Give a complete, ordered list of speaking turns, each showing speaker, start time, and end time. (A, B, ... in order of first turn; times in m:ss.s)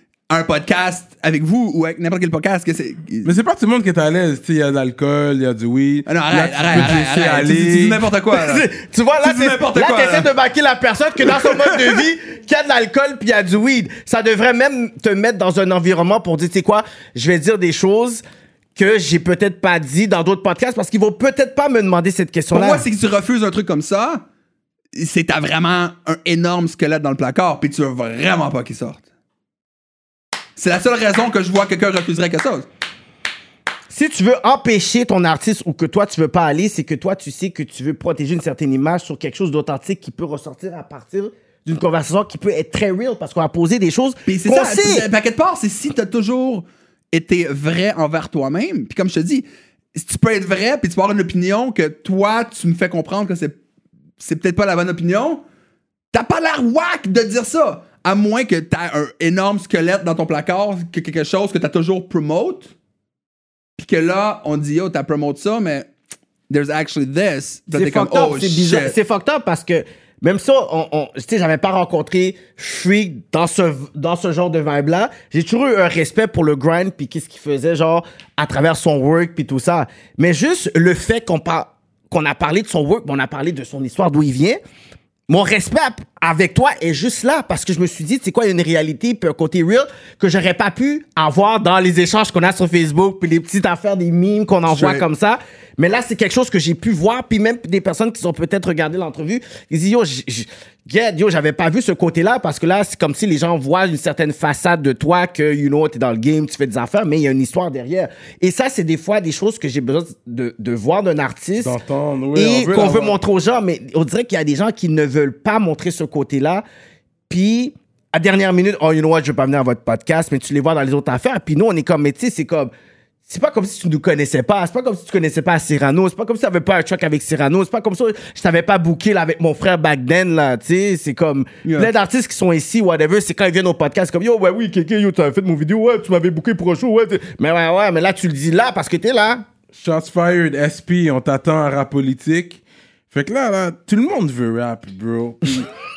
0:00.3-0:03.3 A
0:03.2-0:08.0 B
0:06.1-0:08.7 A
0:08.3-0:18.2 C
0:09.2-0:10.3 A
0:11.2-0:12.0 A
0:18.8-0:22.8 C
0:22.5-0:24.2 A
0:24.9-0:29.0 A
0:30.6-0:32.7 A
0:33.9-0:45.1 C
0:44.3-0:53.6 A
0:54.2-0:55.4 A
0:56.1-1:02.7 A
1:03.8-1:05.9 A
1:06.5-1:09.0 A
1:07.7-1:24.6 C
1:25.3-1:51.8 C
1:34.6-1:35.0 A
1:51.6-1:53.2 B
1:52.3-1:56.6 C
1:57.3-2:02.7 C
2:03.3-2:19.4 C
2:11.6-2:11.9 A
2:19.7-2:25.7 B